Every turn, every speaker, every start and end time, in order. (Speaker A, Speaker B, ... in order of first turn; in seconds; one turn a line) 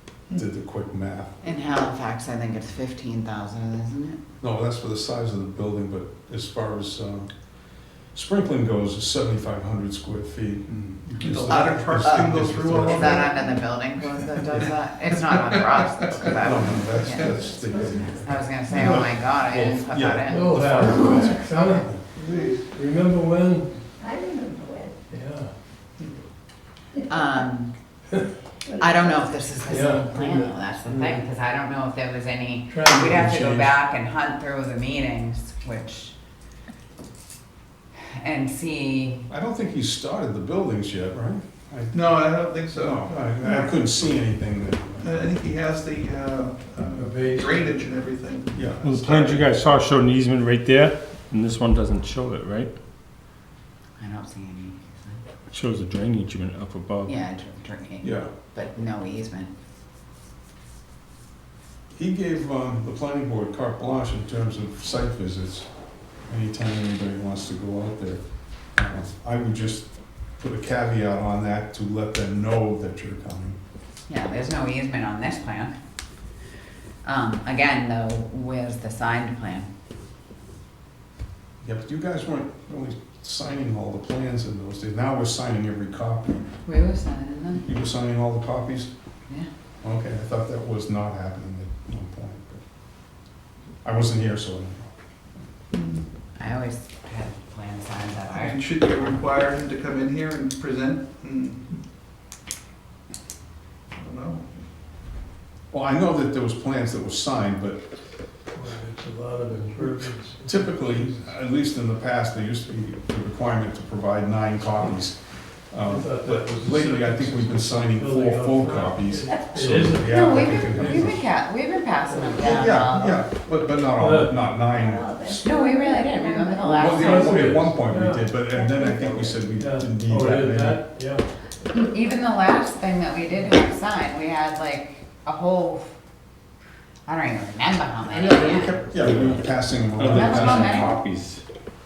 Speaker A: 0.3-1.3
Speaker B: 1.4-4.2
Speaker A: 4.4-7.3
Speaker A: 8.1-13.2
Speaker C: 10.7-13.3
Speaker B: 11.9-17.4
Speaker A: 14.5-14.8
Speaker A: 16.2-21.6
Speaker D: 17.5-18.3
Speaker B: 17.9-21.8
Speaker E: 20.3-23.7
Speaker C: 22.1-22.6
Speaker D: 24.0-24.9
Speaker E: 25.1-25.5
Speaker B: 27.1-27.7
Speaker B: 28.8-36.1
Speaker E: 29.6-31.2
Speaker E: 32.7-33.4
Speaker A: 32.9-33.8
Speaker B: 38.1-39.3
Speaker A: 39.3-42.1
Speaker C: 41.9-43.8
Speaker A: 42.7-45.2
Speaker C: 45.0-48.5
Speaker E: 46.9-47.9
Speaker A: 48.5-49.5
Speaker F: 48.8-52.7
Speaker B: 54.0-55.2
Speaker F: 55.5-57.1
Speaker B: 57.0-59.5
Speaker A: 58.0-58.3
Speaker A: 61.9-65.7
Speaker A: 66.3-68.2
Speaker A: 68.8-73.6
Speaker B: 74.1-75.7
Speaker B: 77.0-79.7
Speaker A: 81.6-86.5
Speaker B: 86.6-87.7
Speaker A: 87.5-88.9
Speaker A: 89.8-92.6
Speaker A: 93.8-95.4
Speaker C: 95.7-96.0
Speaker B: 96.4-98.6
Speaker C: 98.2-101.8
Speaker C: 103.9-104.5
Speaker A: 105.7-107.8
Speaker E: 108.5-111.2
Speaker A: 110.4-121.2
Speaker E: 115.9-121.2
Speaker D: 119.2-119.5
Speaker B: 120.0-123.2
Speaker E: 122.0-122.8
Speaker A: 122.4-125.5
Speaker E: 124.0-124.4
Speaker D: 124.7-127.4
Speaker B: 125.3-127.4
Speaker A: 126.7-130.8
Speaker E: 127.1-128.4
Speaker D: 128.5-129.2
Speaker E: 129.6-131.3
Speaker B: 131.7-135.9
Speaker B: 137.1-138.8
Speaker E: 138.1-138.7
Speaker A: 138.5-141.0
Speaker F: 138.9-141.4
Speaker B: 140.1-141.0